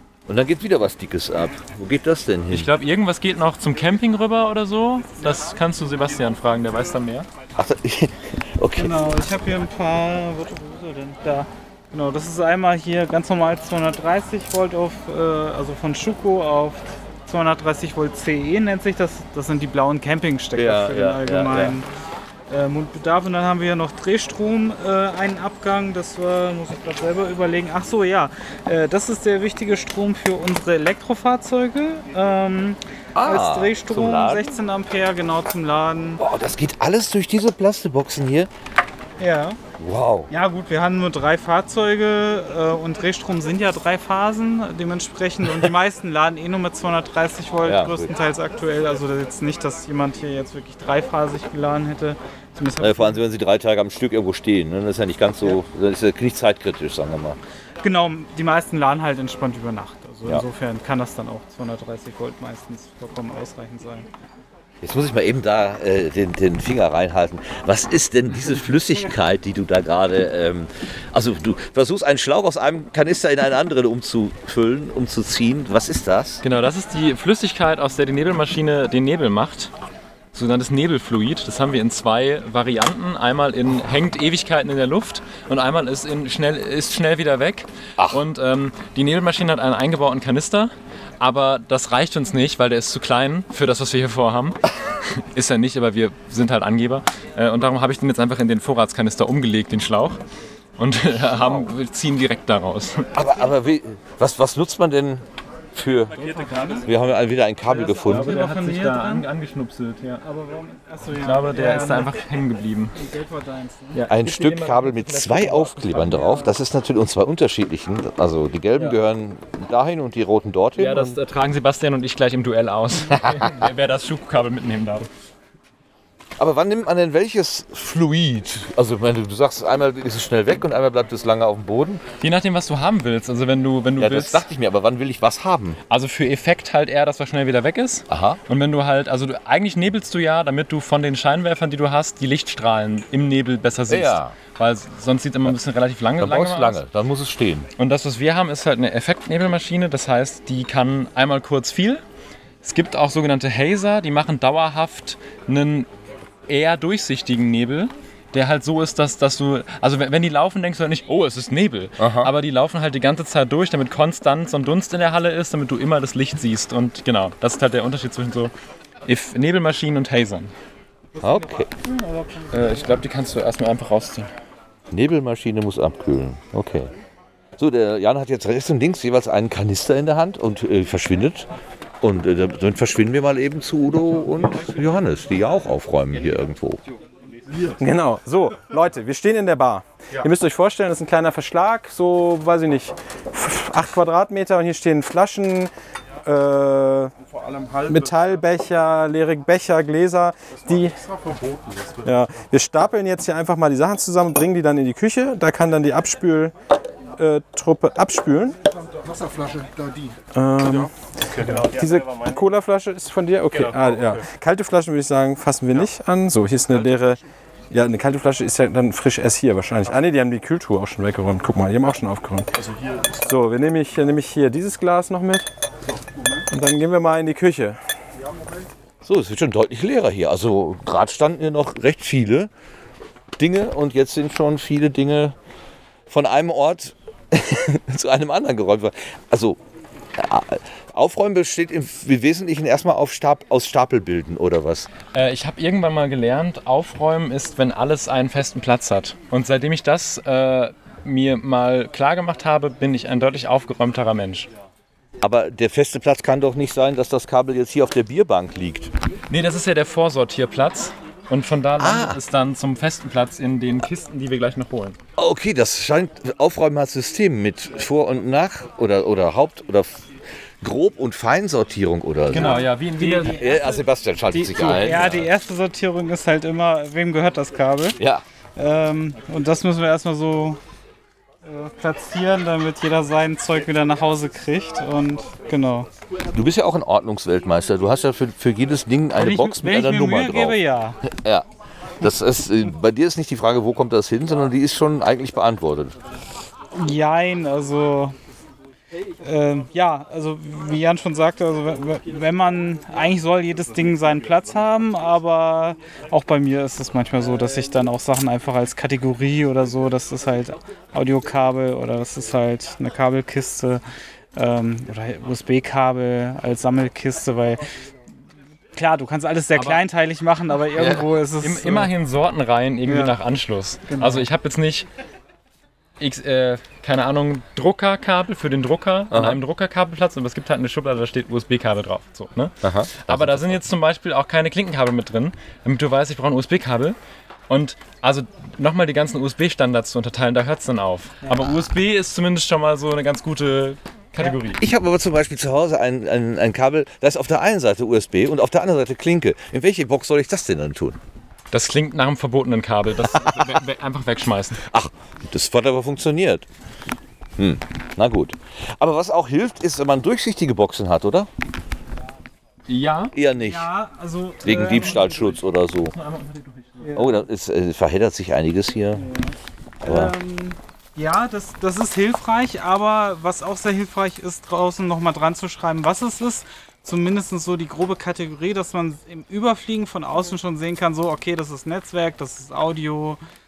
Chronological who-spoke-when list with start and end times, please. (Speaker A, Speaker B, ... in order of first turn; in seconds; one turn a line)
Speaker A: 0.3-2.7
Speaker B: 2.5-7.3
Speaker A: 7.6-9.0
Speaker C: 8.8-21.9
Speaker A: 20.6-21.8
Speaker C: 22.5-36.2
Speaker A: 33.1-34.6
Speaker A: 36.2-38.5
Speaker C: 39.2-39.6
Speaker A: 39.8-40.3
Speaker C: 40.3-53.2
Speaker A: 47.6-48.1
Speaker A: 52.8-57.4
Speaker C: 57.8-64.1
Speaker A: 64.8-76.4
Speaker B: 76.4-79.7
Speaker B: 80.3-100.2
Speaker B: 100.8-103.1
Speaker A: 101.2-101.7
Speaker A: 103.2-106.1
Speaker C: 106.2-106.9
Speaker A: 106.8-108.4
Speaker C: 107.7-109.3
Speaker B: 108.1-110.2
Speaker C: 110.2-112.1
Speaker B: 111.2-113.0
Speaker C: 113.0-114.0
Speaker B: 113.9-116.3
Speaker A: 114.1-121.2
Speaker C: 116.1-116.5
Speaker B: 120.8-125.1
Speaker A: 123.1-123.6
Speaker A: 126.4-132.0
Speaker B: 132.2-134.4
Speaker A: 134.0-135.8
Speaker B: 135.9-146.8
Speaker A: 138.1-138.4
Speaker A: 143.9-144.3
Speaker A: 146.2-147.7
Speaker B: 147.8-152.0
Speaker B: 152.6-155.9
Speaker B: 156.5-168.5
Speaker A: 162.0-162.3
Speaker B: 169.1-170.5
Speaker A: 171.2-171.7
Speaker C: 171.8-172.9
Speaker B: 172.5-174.3
Speaker A: 174.9-176.9
Speaker A: 177.6-181.5
Speaker A: 182.0-186.8
Speaker D: 187.8-195.7
Speaker D: 196.2-197.1
Speaker E: 197.3-198.1
Speaker D: 197.8-201.0
Speaker E: 200.8-202.1
Speaker D: 202.0-206.5
Speaker D: 207.2-208.6
Speaker D: 210.3-222.5
Speaker E: 210.6-211.6
Speaker E: 222.6-223.2
Speaker D: 223.2-225.5
Speaker D: 226.5-227.8
Speaker A: 229.0-232.5
Speaker A: 233.4-235.3
Speaker A: 236.1-239.6
Speaker A: 240.2-244.9
Speaker B: 245.1-254.5
Speaker A: 255.2-258.9
Speaker B: 259.3-265.0
Speaker A: 261.8-262.2
Speaker A: 265.2-270.0
Speaker A: 270.6-272.7
Speaker B: 272.3-273.4
Speaker C: 272.3-278.0
Speaker A: 273.2-275.3
Speaker B: 274.4-275.1
Speaker A: 278.0-278.2
Speaker C: 278.6-280.6
Speaker C: 281.4-285.9
Speaker A: 286.3-290.6
Speaker C: 289.1-291.0
Speaker A: 291.1-291.5
Speaker A: 292.0-296.0
Speaker C: 296.7-298.1
Speaker C: 299.2-313.8
Speaker C: 314.4-317.6
Speaker C: 318.8-321.9
Speaker B: 319.5-319.8
Speaker A: 320.8-321.1
Speaker B: 321.4-324.9
Speaker C: 322.9-323.2
Speaker C: 323.9-324.3
Speaker B: 326.0-337.0
Speaker A: 329.1-329.4
Speaker A: 332.6-333.6
Speaker B: 337.5-344.6
Speaker A: 344.6-351.0
Speaker B: 351.5-354.6
Speaker A: 354.6-356.5
Speaker A: 357.4-361.3
Speaker B: 362.7-363.1
Speaker A: 363.1-363.7
Speaker C: 363.3-365.4
Speaker A: 364.4-365.9
Speaker B: 365.9-367.0
Speaker C: 366.8-367.2
Speaker A: 366.9-369.0
Speaker C: 368.9-383.2
Speaker A: 369.8-370.1